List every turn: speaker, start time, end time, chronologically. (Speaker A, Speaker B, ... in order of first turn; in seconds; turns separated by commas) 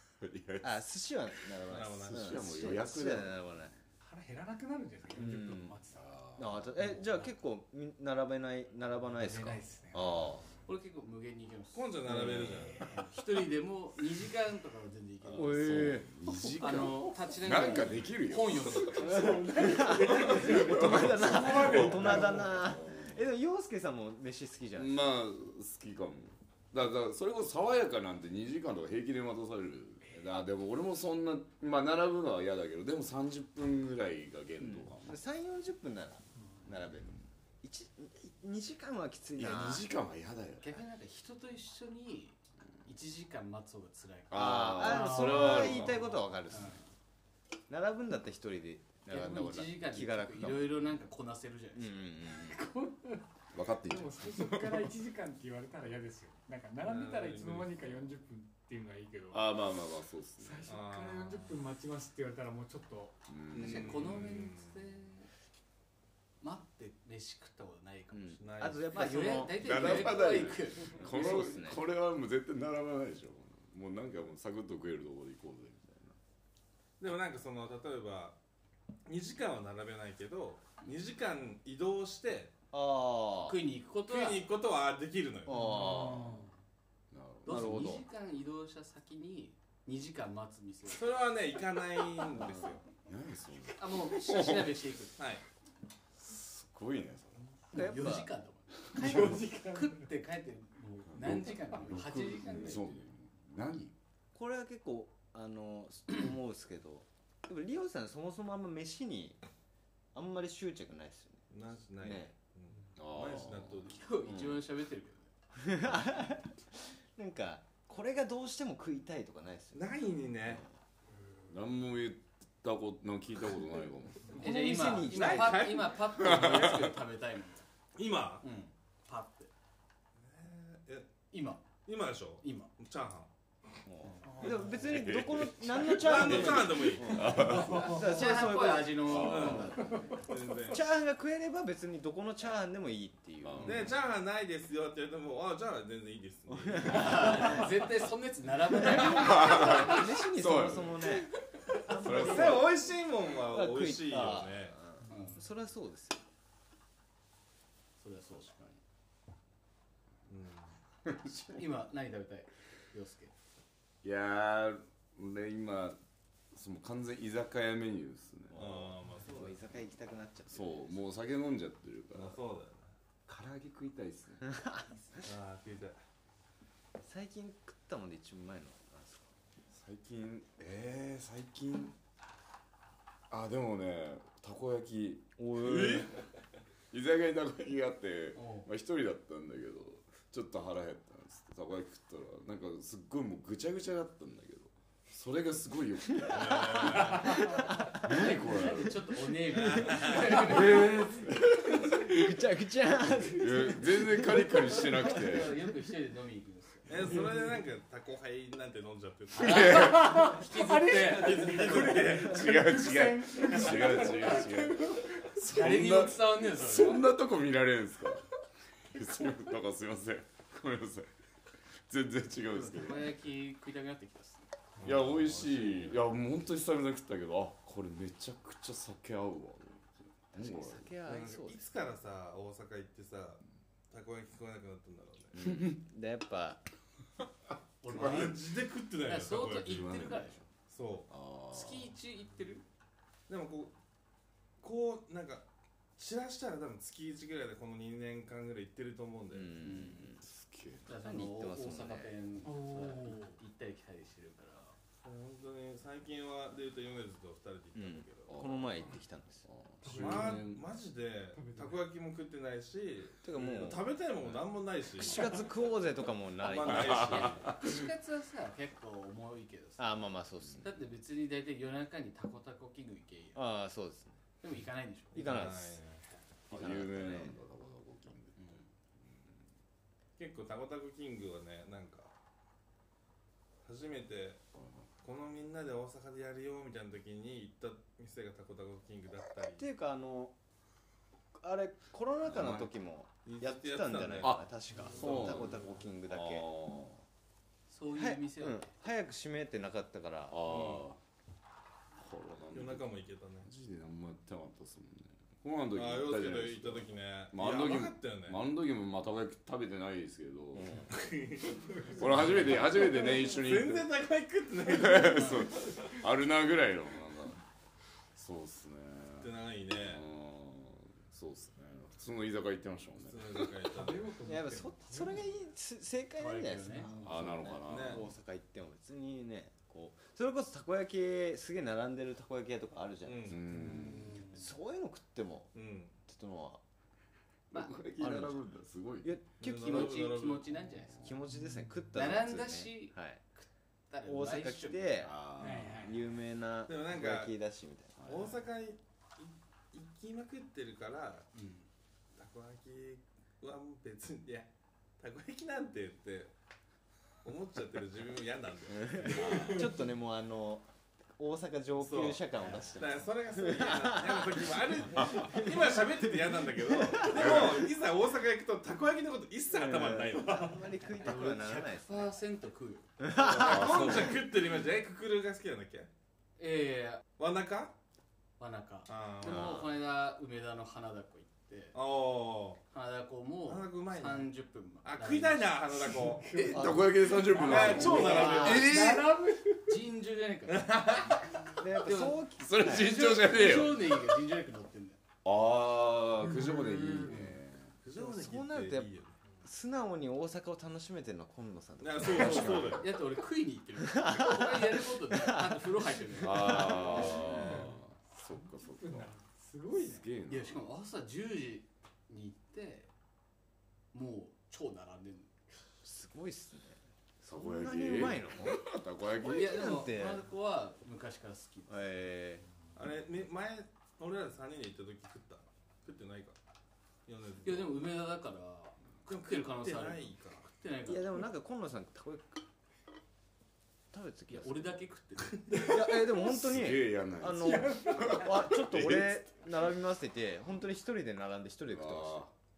Speaker A: 0.2-3.6, Speaker B: 0.6-3.8, Speaker C: 1.7-2.4, Speaker D: 4.0-6.1, Speaker B: 5.2-5.8, Speaker A: 5.9-7.0, Speaker B: 6.4-10.4, Speaker D: 9.1-10.3, Speaker E: 10.7-19.4, Speaker C: 11.7-12.9, Speaker A: 12.1-12.6, Speaker B: 12.1-12.5, Speaker D: 12.8-13.0, Speaker A: 15.3-23.3, Speaker B: 15.3-16.1, Speaker D: 16.5-17.8, Speaker D: 18.9-22.6, Speaker B: 19.2-25.0, Speaker A: 24.8-35.2, Speaker B: 34.6-39.9, Speaker A: 39.4-40.8, Speaker E: 40.6-45.9, Speaker A: 44.3-46.1, Speaker B: 44.3-46.8, Speaker D: 45.0-45.4, Speaker E: 46.5-46.8, Speaker B: 47.7-50.9, Speaker E: 49.1-52.1, Speaker B: 51.8-52.6, Speaker D: 52.5-53.2, Speaker A: 53.5-54.9, Speaker D: 53.8-59.6, Speaker C: 56.8-58.0, Speaker A: 59.3-60.8, Speaker D: 60.4-63.1, Speaker C: 60.7-61.6, Speaker A: 63.3-64.1, Speaker C: 63.5-64.9, Speaker E: 63.5-65.3, Speaker E: 66.4-71.5, Speaker B: 68.1-71.8, Speaker C: 68.4-69.2, Speaker A: 69.5-76.2, Speaker C: 77.0-78.4, Speaker C: 79.1-82.5, Speaker B: 82.7-83.6, Speaker E: 83.4-84.5, Speaker C: 84.0-85.9, Speaker B: 85.5-86.4, Speaker D: 85.5-86.5, Speaker A: 87.1-88.0, Speaker E: 87.4-91.1, Speaker B: 87.5-88.0, Speaker C: 90.9-92.8, Speaker A: 93.0-94.8, Speaker E: 93.8-95.2, Speaker C: 95.2-95.4, Speaker A: 96.2-97.8, Speaker B: 97.7-98.3, Speaker E: 97.7-102.9, Speaker D: 98.9-100.1, Speaker A: 99.0-99.4, Speaker A: 101.1-103.9, Speaker B: 104.3-109.4, Speaker B: 110.1-111.5, Speaker C: 111.5-114.3, Speaker B: 112.0-112.3, Speaker A: 113.0-113.9, Speaker E: 113.9-115.3, Speaker B: 114.3-114.6, Speaker B: 115.5-120.6, Speaker C: 119.7-120.6, Speaker A: 121.5-124.4, Speaker B: 124.3-125.9, Speaker E: 124.4-127.7, Speaker C: 124.9-126.4, Speaker A: 126.1-127.0, Speaker C: 128.0-128.4, Speaker E: 128.4-129.5, Speaker C: 130.2-131.1, Speaker E: 131.3-131.7, Speaker C: 131.8-133.3, Speaker E: 132.4-132.7, Speaker B: 133.9-139.8, Speaker A: 134.7-138.0, Speaker C: 135.8-137.6, Speaker E: 137.2-140.2, Speaker D: 137.8-138.1, Speaker A: 139.0-139.8, Speaker C: 139.2-140.8, Speaker B: 140.7-143.9, Speaker A: 143.4-144.0, Speaker C: 143.6-147.5, Speaker B: 146.5-147.7, Speaker E: 146.8-150.0, Speaker B: 148.8-156.2, Speaker A: 148.9-151.3, Speaker A: 151.9-152.7, Speaker C: 152.0-154.8, Speaker E: 155.1-155.4, Speaker E: 158.0-158.7, Speaker C: 160.3-160.7, Speaker E: 161.2-163.3, Speaker A: 164.0-166.0, Speaker A: 166.5-168.9, Speaker C: 168.5-169.6, Speaker B: 169.2-171.0, Speaker A: 170.5-172.4, Speaker C: 172.1-172.9, Speaker A: 173.3-174.5, Speaker B: 174.5-174.9, Speaker C: 175.1-176.0, Speaker B: 177.0-179.3, Speaker A: 179.7-181.9, Speaker A: 183.3-186.1, Speaker B: 185.4-186.1, Speaker C: 185.6-186.1, Speaker A: 186.9-199.0, Speaker E: 188.3-188.7, Speaker C: 196.3-197.4, Speaker E: 197.3-200.9, Speaker B: 197.7-198.0, Speaker C: 199.5-200.6, Speaker A: 200.1-202.4, Speaker B: 200.4-204.5, Speaker A: 203.3-205.6, Speaker E: 204.8-207.3, Speaker C: 206.9-210.0, Speaker E: 209.3-211.8, Speaker A: 209.3-210.3, Speaker D: 209.9-215.2, Speaker C: 211.0-212.5, Speaker A: 211.8-218.2, Speaker E: 215.3-217.1, Speaker A: 218.9-221.1, Speaker A: 221.9-223.1, Speaker E: 222.5-226.0, Speaker A: 224.8-231.0, Speaker B: 230.3-231.6, Speaker C: 231.0-235.5, Speaker A: 235.3-235.8, Speaker B: 235.4-236.6, Speaker E: 237.8-240.4, Speaker C: 237.9-240.0, Speaker A: 237.9-238.3, Speaker A: 239.6-240.5, Speaker C: 240.7-241.1, Speaker A: 241.1-241.9, Speaker E: 241.5-242.6, Speaker C: 243.3-243.7, Speaker C: 244.6-245.4, Speaker C: 246.0-249.6, Speaker B: 249.3-250.2, Speaker E: 249.6-250.1, Speaker A: 250.2-250.9, Speaker E: 250.9-254.8, Speaker B: 250.9-252.1, Speaker D: 252.4-253.4, Speaker C: 255.0-258.4, Speaker B: 257.8-259.5, Speaker A: 258.3-260.6, Speaker C: 259.8-265.5, Speaker D: 259.8-260.5, Speaker D: 261.3-261.8, Speaker B: 263.2-263.8, Speaker B: 265.0-267.3, Speaker C: 266.4-267.5, Speaker A: 266.6-267.8, Speaker E: 267.0-270.1, Speaker B: 269.8-270.8, Speaker E: 270.6-273.4, Speaker B: 273.3-274.2, Speaker E: 274.4-275.3, Speaker B: 275.1-275.8, Speaker C: 275.1-276.0, Speaker B: 276.5-277.4, Speaker A: 276.5-279.2, Speaker E: 278.4-278.7, Speaker C: 280.2-282.1, Speaker C: 283.6-284.4, Speaker A: 284.6-284.8, Speaker C: 285.0-289.6, Speaker B: 289.4-290.3, Speaker B: 291.4-296.5, Speaker C: 292.3-292.7, Speaker A: 292.3-292.6, Speaker C: 293.2-295.7, Speaker A: 294.2-297.0, Speaker E: 297.7-298.7, Speaker B: 297.9-300.8, Speaker A: 300.3-301.0, Speaker A: 302.0-302.9, Speaker C: 302.5-303.5, Speaker A: 303.4-310.9, Speaker C: 305.7-308.4, Speaker B: 310.6-310.9, Speaker C: 310.9-315.7, Speaker A: 311.9-313.9, Speaker A: 314.7-317.4, Speaker A: 318.1-323.5, Speaker C: 319.2-320.0, Speaker C: 323.0-324.2, Speaker D: 323.7-325.5, Speaker B: 324.2-333.5, Speaker E: 326.2-326.9, Speaker D: 326.8-327.2, Speaker A: 327.0-328.1, Speaker C: 327.6-328.1, Speaker C: 333.0-333.4, Speaker A: 333.2-334.3, Speaker D: 333.6-334.3, Speaker B: 334.3-335.5, Speaker C: 335.5-335.9, Speaker B: 336.0-336.6, Speaker E: 337.5-337.8, Speaker A: 337.5-339.2, Speaker B: 338.0-338.4, Speaker B: 339.0-340.1, Speaker C: 339.4-340.6, Speaker E: 339.4-341.1, Speaker B: 341.0-343.2, Speaker E: 341.9-345.5, Speaker B: 344.0-348.1, Speaker A: 345.0-345.9, Speaker D: 345.4-345.9, Speaker C: 346.7-347.4, Speaker A: 348.0-348.4, Speaker C: 348.1-351.3, Speaker E: 351.3-351.7, Speaker C: 352.2-356.3, Speaker C: 357.2-359.8, Speaker B: 358.7-367.6, Speaker D: 359.3-359.7, Speaker C: 361.8-370.8, Speaker A: 367.1-367.6, Speaker B: 369.5-372.1, Speaker E: 370.9-372.9, Speaker B: 373.0-374.1, Speaker C: 373.1-375.9, Speaker A: 373.5-374.2, Speaker E: 376.4-377.0, Speaker C: 377.2-377.7, Speaker E: 378.4-381.8, Speaker C: 378.9-379.6, Speaker B: 379.2-379.7, Speaker C: 381.7-382.6, Speaker E: 382.7-385.7, Speaker C: 383.5-384.3, Speaker C: 384.8-386.5, Speaker D: 385.8-389.8, Speaker A: 386.3-389.2, Speaker B: 386.5-386.9, Speaker C: 387.3-388.7, Speaker B: 387.4-388.7, Speaker E: 389.5-395.0, Speaker C: 390.5-391.5, Speaker B: 391.6-393.2, Speaker A: 392.4-393.9, Speaker A: 395.2-397.7, Speaker D: 396.2-397.2, Speaker C: 397.8-399.2, Speaker B: 397.9-398.9, Speaker B: 399.4-402.8, Speaker C: 401.8-402.9, Speaker A: 402.0-402.8, Speaker E: 402.8-407.4, Speaker B: 403.8-405.6, Speaker A: 406.2-409.1, Speaker D: 406.9-407.8, Speaker D: 408.3-410.1, Speaker A: 409.7-410.7, Speaker E: 410.3-412.9, Speaker E: 413.9-415.3, Speaker B: 415.8-416.8, Speaker A: 417.2-419.9, Speaker B: 417.3-420.3, Speaker E: 419.2-421.9, Speaker B: 421.7-422.4, Speaker C: 422.8-426.4, Speaker C: 427.1-427.8, Speaker E: 427.4-431.3, Speaker C: 429.1-430.5, Speaker B: 430.8-432.4, Speaker B: 433.9-434.8, Speaker E: 434.3-435.7, Speaker B: 435.5-442.2, Speaker A: 436.2-439.2, Speaker D: 437.4-438.4, Speaker A: 441.7-442.3